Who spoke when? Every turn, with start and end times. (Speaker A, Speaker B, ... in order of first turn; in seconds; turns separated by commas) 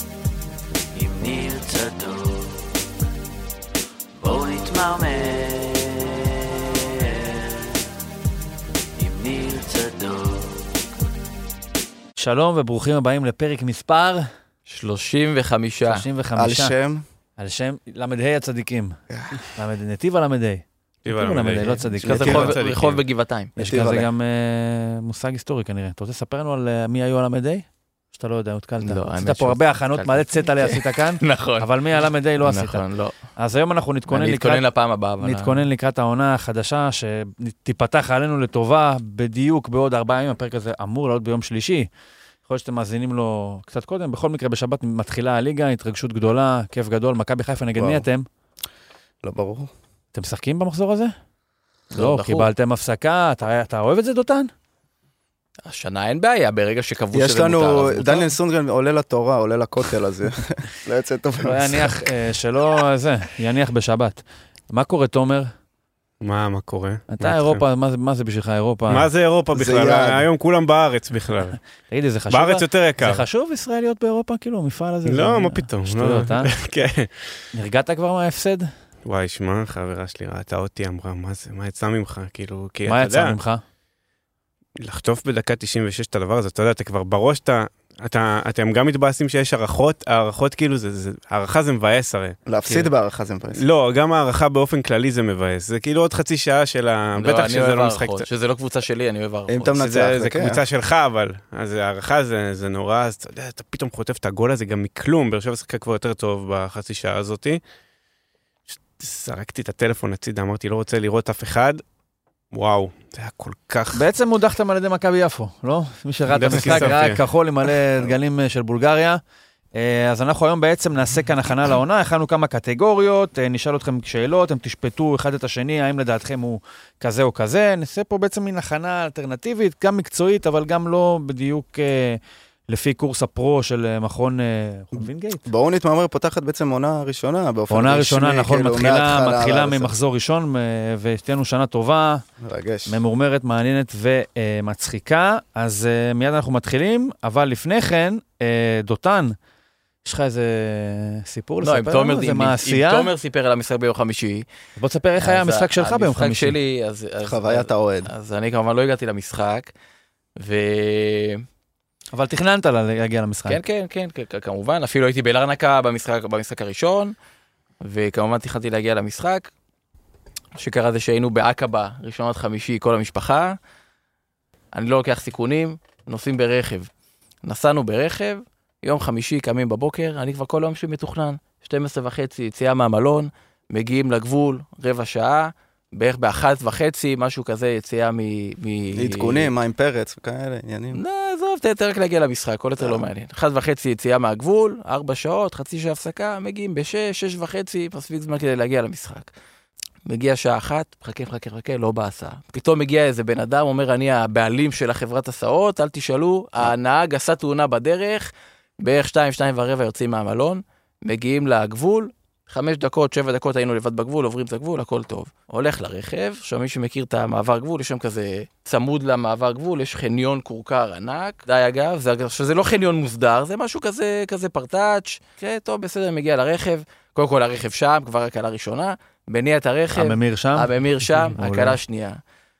Speaker A: 0.9-2.8, Speaker A: 4.2-7.8, Speaker A: 9.0-10.7, Speaker B: 12.2-14.3, Speaker C: 14.7-16.0, Speaker B: 15.9-16.7, Speaker D: 16.4-17.0, Speaker B: 17.4-19.0, Speaker D: 19.1-19.4, Speaker B: 19.5-22.5, Speaker E: 21.0-23.0, Speaker D: 22.0-22.5, Speaker C: 22.0-23.7, Speaker B: 23.6-32.8, Speaker D: 23.6-24.1, Speaker C: 28.8-33.1, Speaker B: 33.4-34.6, Speaker C: 34.1-35.6, Speaker B: 35.2-41.9, Speaker B: 42.5-48.3, Speaker D: 47.8-48.1, Speaker D: 49.2-49.7, Speaker B: 50.1-51.1, Speaker C: 51.9-52.5, Speaker B: 51.9-54.5, Speaker C: 55.6-58.3, Speaker D: 57.1-62.1, Speaker B: 61.4-65.5, Speaker E: 66.2-67.6, Speaker B: 67.1-69.1, Speaker E: 68.9-71.6, Speaker D: 69.5-70.3, Speaker B: 71.9-76.5, Speaker E: 72.3-73.2, Speaker E: 75.1-77.3, Speaker B: 77.5-78.7, Speaker E: 79.0-83.4, Speaker B: 82.9-83.6, Speaker E: 84.8-92.4, Speaker D: 92.5-93.6, Speaker E: 93.6-98.3, Speaker C: 97.2-99.8, Speaker D: 99.5-100.6, Speaker E: 99.8-107.6, Speaker E: 108.7-111.8, Speaker E: 112.5-114.0, Speaker B: 113.9-119.2, Speaker E: 116.3-117.2, Speaker B: 119.8-135.4, Speaker D: 135.5-139.9, Speaker B: 137.7-142.2, Speaker D: 142.4-143.0, Speaker B: 142.9-149.3, Speaker B: 150.0-153.1, Speaker C: 151.6-154.5, Speaker B: 154.8-156.6, Speaker C: 155.2-159.7, Speaker D: 157.2-158.1, Speaker C: 160.4-161.4, Speaker B: 162.1-163.6, Speaker C: 163.5-167.2, Speaker C: 167.8-169.5, Speaker C: 170.6-173.6, Speaker C: 174.7-176.9, Speaker C: 177.4-189.5, Speaker D: 188.9-191.0, Speaker C: 190.9-199.3, Speaker C: 200.1-232.2, Speaker B: 229.9-231.8